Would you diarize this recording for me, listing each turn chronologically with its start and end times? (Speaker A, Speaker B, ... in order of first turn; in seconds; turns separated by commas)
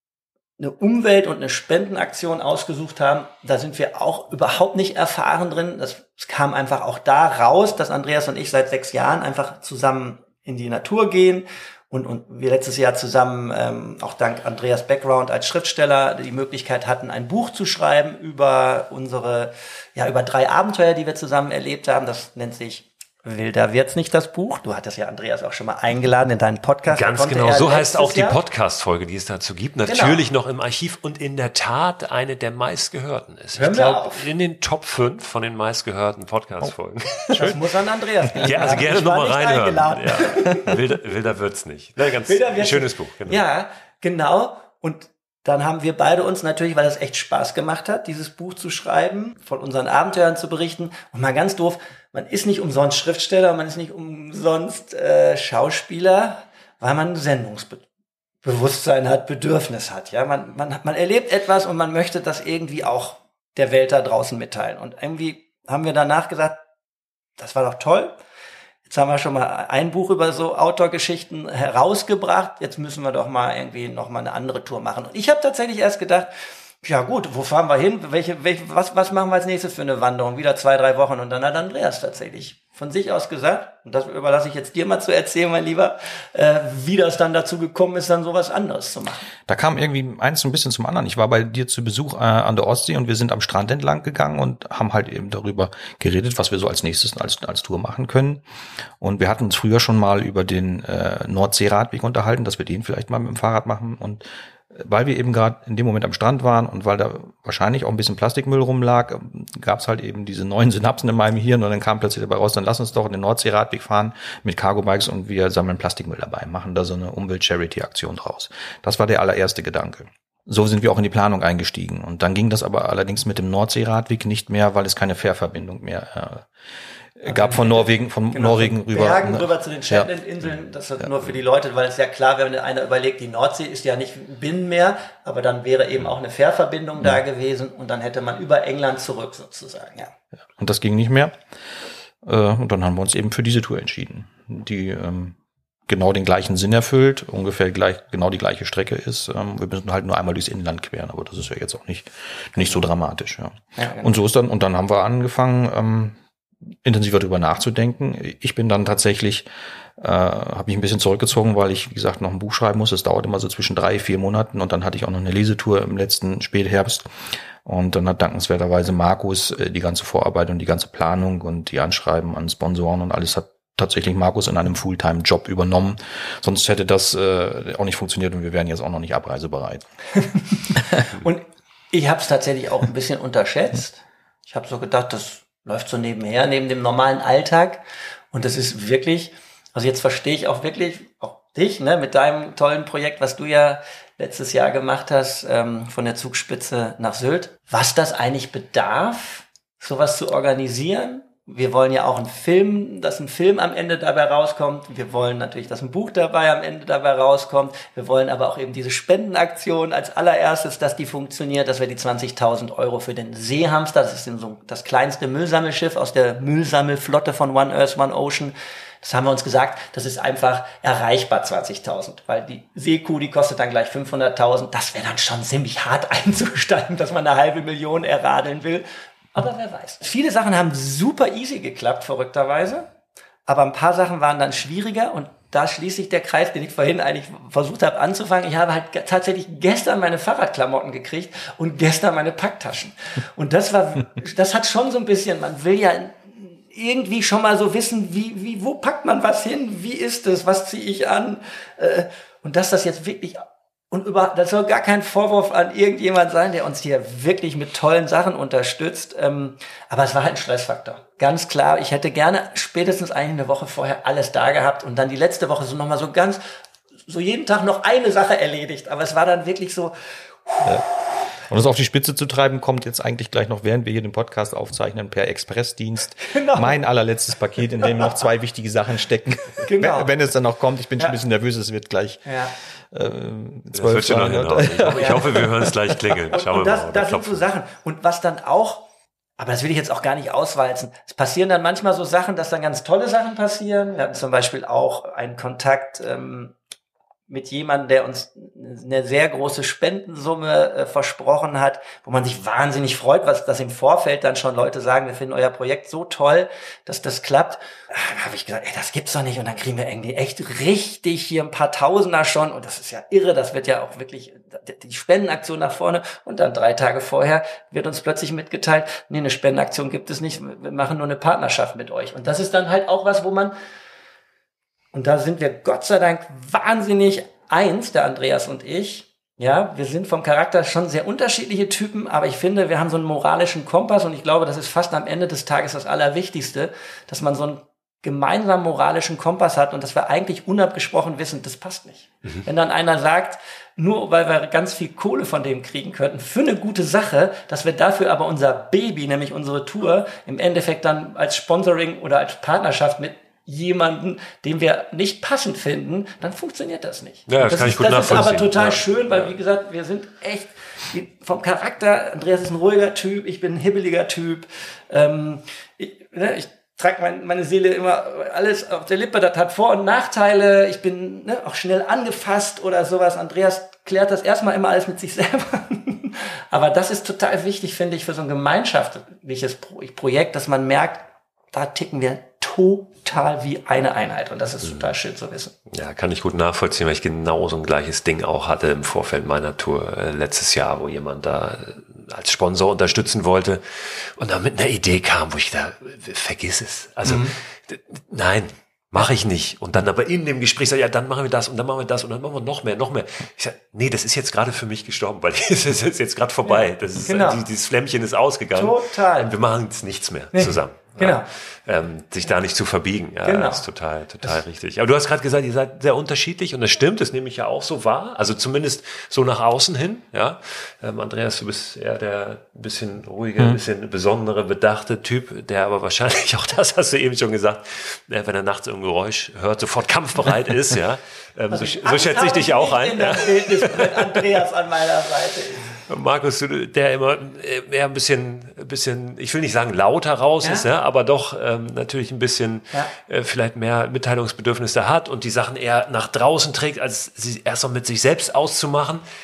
Speaker A: 0.6-28.4, Speaker B: 26.9-37.5, Speaker A: 29.9-30.2, Speaker A: 33.5-34.3, Speaker A: 37.3-40.8, Speaker B: 38.4-43.4, Speaker A: 42.2-57.8, Speaker A: 58.4-66.6, Speaker A: 67.4-68.1, Speaker A: 68.9-76.3, Speaker A: 76.8-89.3, Speaker C: 89.5-98.4, Speaker C: 99.0-126.5, Speaker C: 127.2-130.1, Speaker A: 127.3-140.1, Speaker C: 140.6-141.3, Speaker C: 142.2-145.3, Speaker C: 145.9-156.2, Speaker A: 153.8-154.1, Speaker C: 156.8-167.1, Speaker C: 167.6-179.8, Speaker A: 180.2-232.8, Speaker A: 233.5-266.4, Speaker A: 267.1-271.0, Speaker C: 271.5-282.2, Speaker A: 276.3-276.8, Speaker A: 279.6-280.1, Speaker A: 282.2-282.5, Speaker C: 282.9-285.7, Speaker B: 283.7-287.4, Speaker A: 286.3-288.9, Speaker A: 289.4-296.5, Speaker A: 297.3-323.5, Speaker A: 324.9-385.5, Speaker B: 357.3-359.3, Speaker B: 385.7-434.3, Speaker A: 397.1-397.3, Speaker A: 406.4-407.5, Speaker A: 408.5-409.3, Speaker A: 410.3-411.2, Speaker A: 413.2-413.6, Speaker A: 431.5-435.8, Speaker B: 435.9-449.0, Speaker A: 440.4-440.7